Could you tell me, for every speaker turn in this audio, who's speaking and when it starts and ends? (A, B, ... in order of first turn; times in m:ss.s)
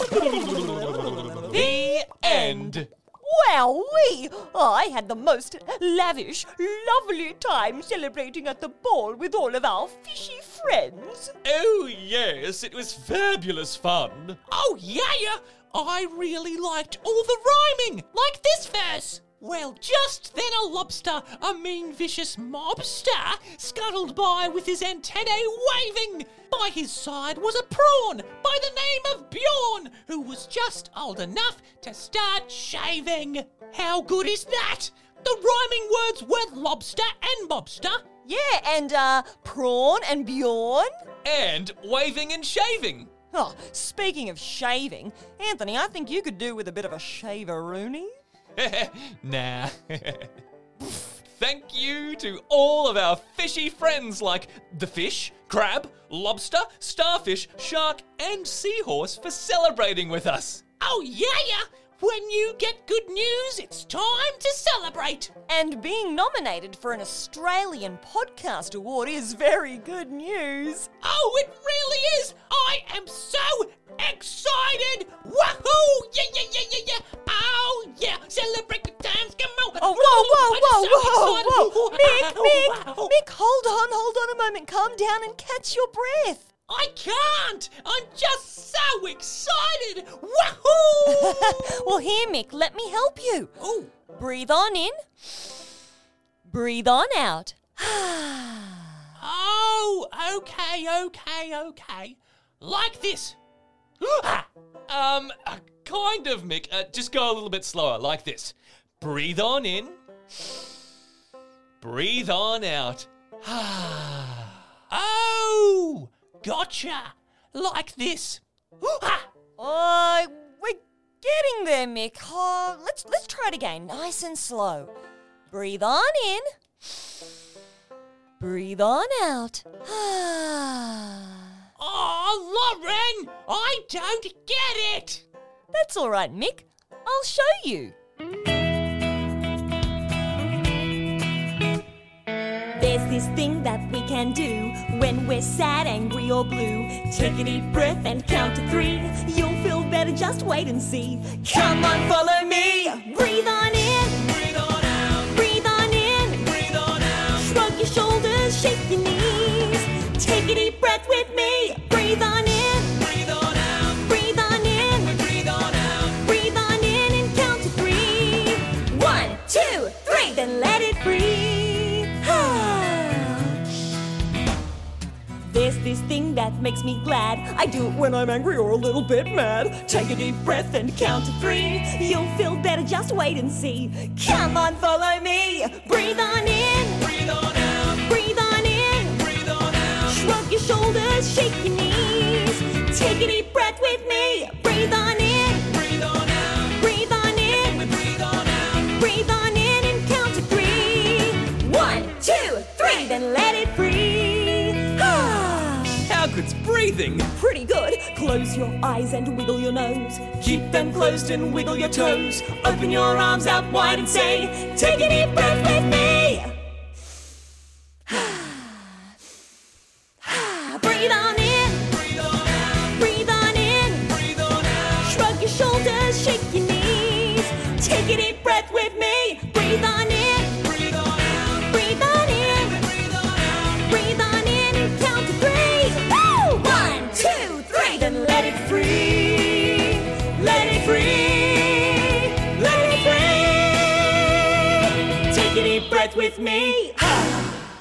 0:00.3-0:11.3 A
0:01.5-0:02.9 B
0:11.4-0:14.4 B
0:14.5-0:38.0 C
0:38.2-0:40.9 A
0:41.2-0:43.1 B
0:43.3-0:48.1 A
0:48.6-1:00.7 B
1:00.8-1:05.3 C
1:05.5-1:10.9 A
1:11.0-1:23.1 C
1:19.8-1:26.5 A
1:26.7-1:31.8 C
1:31.1-1:33.5 A
1:33.6-1:33.9 C
1:34.1-1:35.0 A
1:36.5-1:38.9 A
1:39.2-1:43.4 C
1:44.0-1:50.5 B
1:51.8-1:54.6 B
1:54.9-1:59.3 C
1:59.6-2:04.9 A
2:05.5-2:06.4 A
2:08.4-2:11.5 A
2:11.8-2:15.2 C
2:15.7-2:18.0 A
2:22.8-2:53.6 A
2:55.4-3:26.0 A
3:26.0-3:27.3 B
3:27.3-3:36.6 A
3:38.1-3:39.0 A
3:40.2-4:07.4 A